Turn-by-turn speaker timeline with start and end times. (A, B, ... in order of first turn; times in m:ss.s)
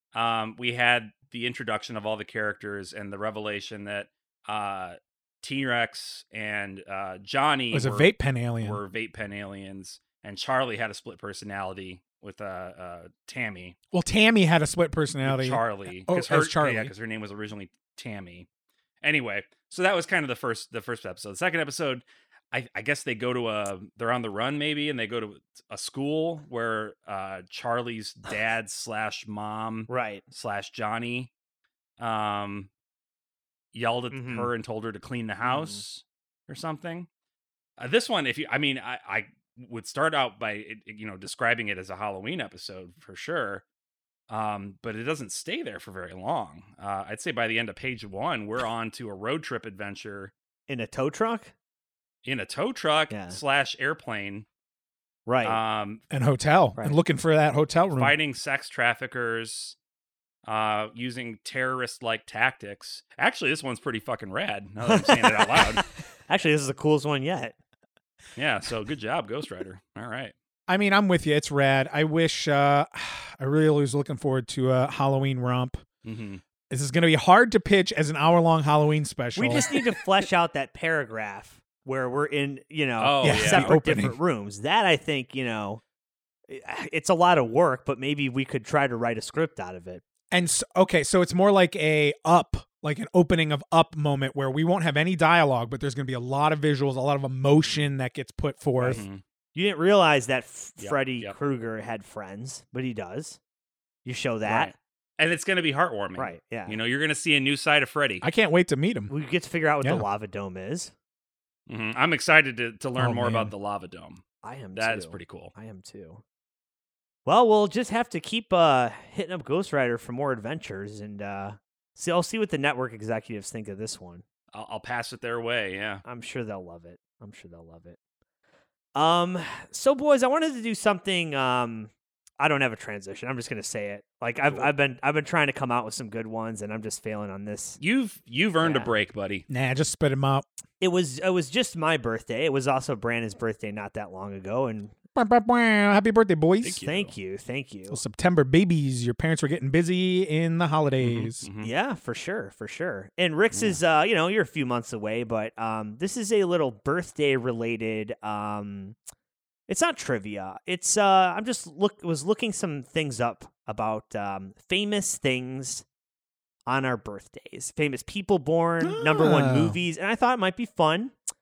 0:00.1-0:13.8 A
0:07.7-0:08.8 B
0:13.9-0:16.9 B
0:15.2-0:18.5 A
0:19.0-0:31.3 A
0:29.9-0:30.2 C
0:32.0-0:32.7 A
0:33.7-0:37.1 A
0:34.1-0:34.5 C
0:35.4-0:35.8 C
0:37.8-0:43.6 A
0:44.3-0:50.3 A
0:50.7-0:51.5 C
0:52.2-0:54.4 A
0:53.1-0:53.4 C
0:55.2-0:55.6 C
0:55.4-0:56.0 A
0:56.1-0:58.1 B
0:57.9-0:59.8 A
1:00.4-1:05.8 A
1:04.9-1:07.6 C
1:08.4-1:10.3 A
1:10.7-1:15.8 B
1:16.0-1:16.4 A
1:16.7-1:19.7 B
1:19.4-1:25.8 C
1:23.0-1:23.8 A
1:23.2-1:24.2 B
1:26.5-1:30.0 C
1:30.3-1:39.0 B
1:38.8-1:39.0 C
1:38.9-1:39.2 A
1:39.5-1:43.4 C
1:40.8-1:41.3 A
1:44.0-1:44.7 C
1:44.4-1:48.2 A
1:46.2-1:46.8 C
1:48.2-1:49.1 B
1:49.1-1:50.9 C
1:51.7-1:54.2 A
1:53.0-1:53.5 B
1:54.4-1:56.2 C
1:54.8-1:55.5 A
1:57.2-2:04.2 C
2:04.5-2:06.0 A
2:06.0-2:08.0 C
2:08.9-2:17.8 C
2:17.8-2:19.4 A
2:18.6-2:18.9 C
2:19.5-2:20.4 B
2:20.8-2:24.9 C
2:25.1-2:26.8 B
2:26.6-2:27.1 A
2:26.8-2:28.0 C
2:27.9-2:31.4 B
2:31.0-2:31.7 A
2:31.6-2:39.0 C
2:33.5-2:33.8 A
2:39.7-2:45.8 C
2:46.7-2:51.1 C
2:48.8-2:49.8 B